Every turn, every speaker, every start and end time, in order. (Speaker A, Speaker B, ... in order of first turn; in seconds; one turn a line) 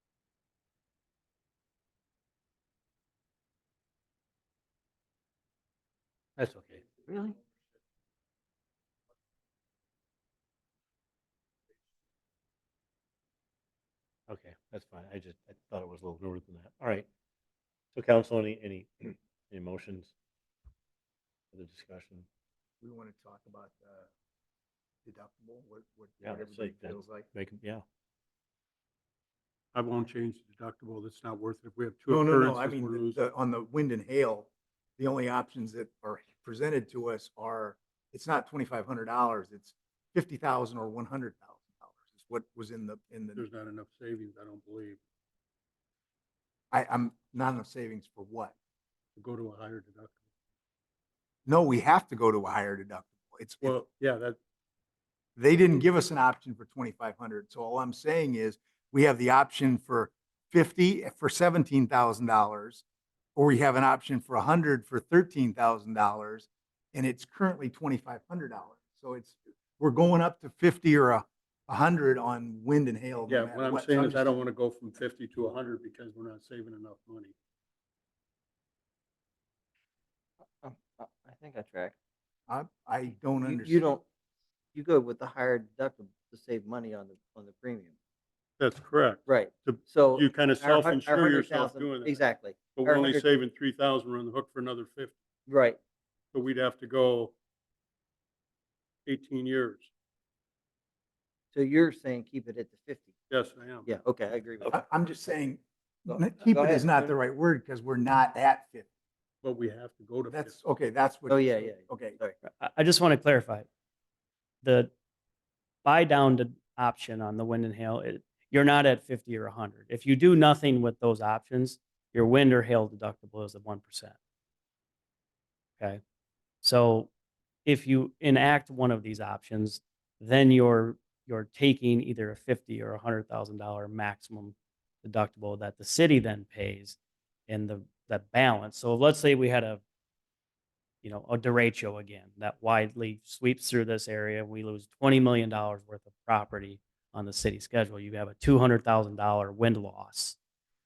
Speaker A: 6.4-6.8
Speaker B: 7.1-7.4
Speaker A: 14.3-17.1
Speaker A: 17.9-20.1
Speaker A: 21.5-22.3
Speaker C: 22.8-24.1
Speaker C: 25.1-27.3
Speaker A: 26.2-27.8
Speaker D: 29.8-33.2
Speaker C: 32.1-43.5
Speaker D: 43.4-45.0
Speaker C: 46.7-48.5
Speaker D: 49.2-50.2
Speaker C: 51.5-53.8
Speaker D: 53.6-54.4
Speaker C: 55.4-62.8
Speaker C: 63.4-74.3
Speaker D: 73.3-77.3
Speaker B: 80.6-82.0
Speaker C: 82.5-83.8
Speaker B: 83.4-84.0
Speaker B: 84.8-87.9
Speaker D: 88.6-95.2
Speaker B: 89.3-93.3
Speaker B: 95.5-95.8
Speaker D: 96.3-97.3
Speaker D: 99.1-99.9
Speaker B: 101.5-103.1
Speaker D: 103.3-103.9
Speaker B: 103.8-104.8
Speaker C: 104.6-108.9
Speaker B: 106.1-106.9
Speaker D: 109.4-110.6
Speaker C: 110.3-112.2
Speaker B: 111.3-112.3
Speaker E: 112.6-113.7
Speaker E: 114.6-114.9
Speaker E: 115.8-124.2
Speaker E: 126.6-127.1
Speaker E: 127.7-137.0
Speaker E: 137.5-139.8
Speaker E: 141.0-150.4